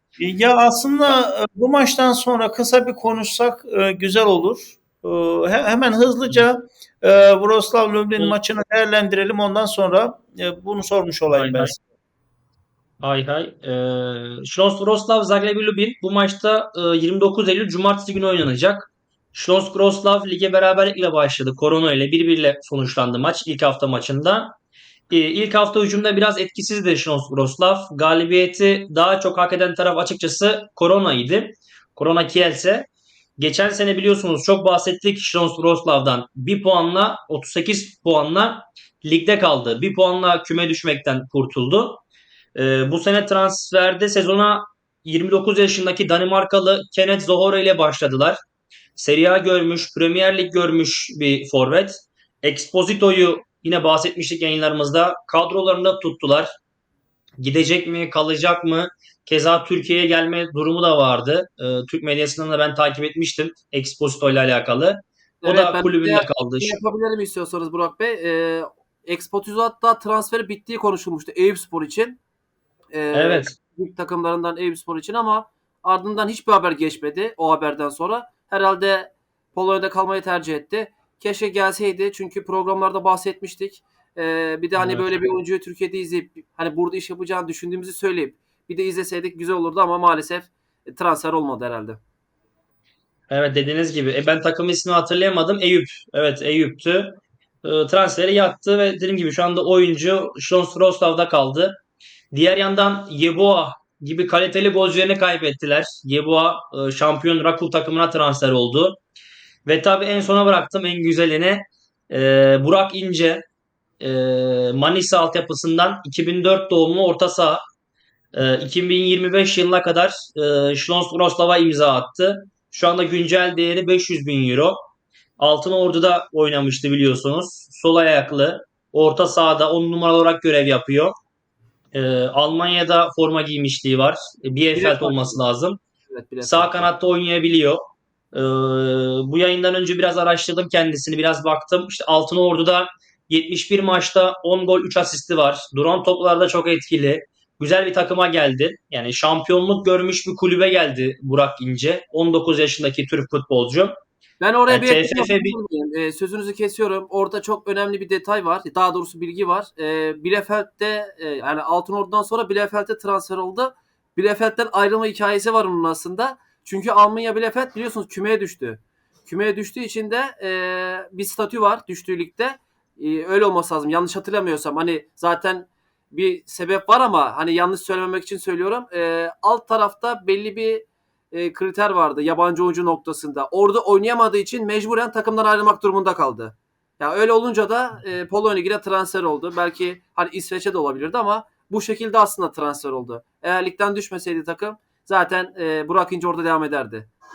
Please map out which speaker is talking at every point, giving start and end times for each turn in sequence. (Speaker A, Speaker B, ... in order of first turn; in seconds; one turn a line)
Speaker A: 0.2-11.8
Speaker B: 11.3-11.7
Speaker B: 13.0-24.5
Speaker B: 25.1-42.0
Speaker B: 42.5-48.4
Speaker B: 49.0-56.5
Speaker B: 57.4-66.8
Speaker C: 65.4-72.2
Speaker C: 72.9-92.0
Speaker B: 73.1-73.5
Speaker B: 84.8-85.4
Speaker B: 93.3-101.8
Speaker B: 102.3-109.0
Speaker B: 109.7-113.4
Speaker B: 114.0-117.6
Speaker B: 118.3-124.8
Speaker B: 125.4-131.1
Speaker B: 131.9-135.8
Speaker C: 134.7-135.4
Speaker C: 136.1-136.9
Speaker B: 136.4-153.9
Speaker C: 154.4-197.1
Speaker B: 154.7-155.6